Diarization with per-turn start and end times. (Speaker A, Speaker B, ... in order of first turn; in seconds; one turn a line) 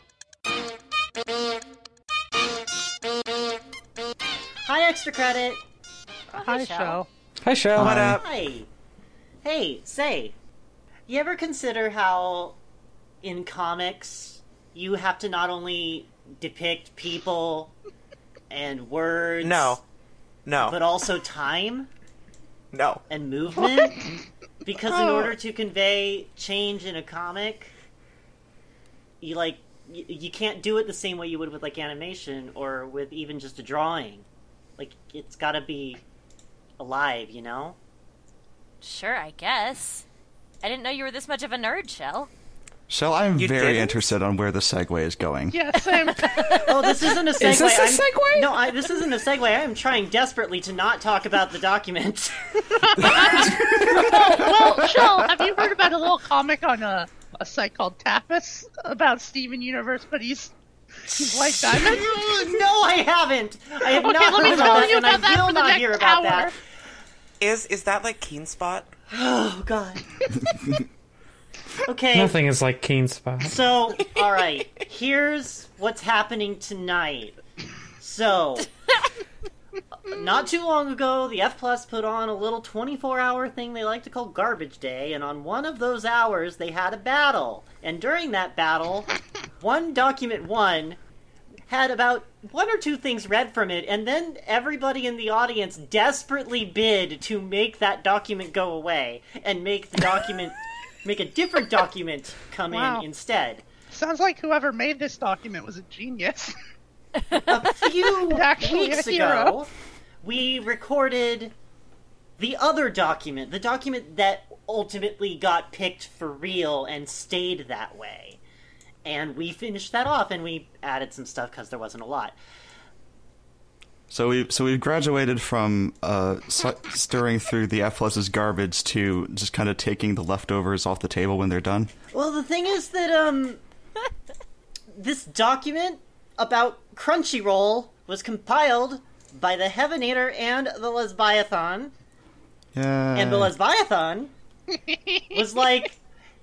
Speaker A: 4.6-5.6
Speaker B: 6.3-7.0
Speaker C: 6.3-7.1
Speaker D: 7.4-8.2
Speaker E: 7.7-8.2
Speaker F: 7.8-8.2
Speaker A: 7.9-8.7
Speaker A: 9.4-10.3
Speaker A: 11.1-12.6
Speaker A: 13.2-17.7
Speaker A: 18.5-19.8
Speaker E: 19.4-19.8
Speaker E: 20.4-20.8
Speaker A: 20.6-21.9
Speaker E: 22.7-23.0
Speaker A: 23.1-24.1
Speaker A: 24.6-27.7
Speaker C: 24.9-25.3
Speaker A: 29.2-34.3
Speaker A: 34.8-36.0
Speaker A: 36.8-37.8
Speaker B: 38.8-40.0
Speaker B: 40.6-42.3
Speaker F: 42.9-45.6
Speaker E: 43.4-44.1
Speaker C: 45.5-46.7
Speaker B: 46.0-46.6
Speaker D: 46.4-48.8
Speaker A: 46.6-53.5
Speaker C: 52.8-62.1
Speaker F: 53.0-55.4
Speaker F: 61.6-62.6
Speaker A: 61.7-66.5
Speaker C: 63.9-66.5
Speaker E: 67.4-68.9
Speaker A: 69.1-70.0
Speaker A: 71.8-72.4
Speaker D: 72.1-73.6
Speaker A: 73.4-77.4
Speaker A: 78.0-78.7
Speaker A: 80.1-91.0
Speaker A: 91.7-103.7
Speaker C: 102.7-103.0
Speaker C: 103.9-106.5
Speaker A: 107.3-109.7
Speaker C: 108.2-109.6
Speaker A: 110.2-111.5
Speaker A: 112.4-118.4
Speaker A: 119.0-122.4
Speaker F: 124.1-131.9
Speaker A: 132.1-133.6
Speaker A: 134.9-141.9
Speaker F: 142.7-143.5
Speaker A: 143.1-144.3
Speaker C: 144.9-145.2
Speaker A: 145.3-146.0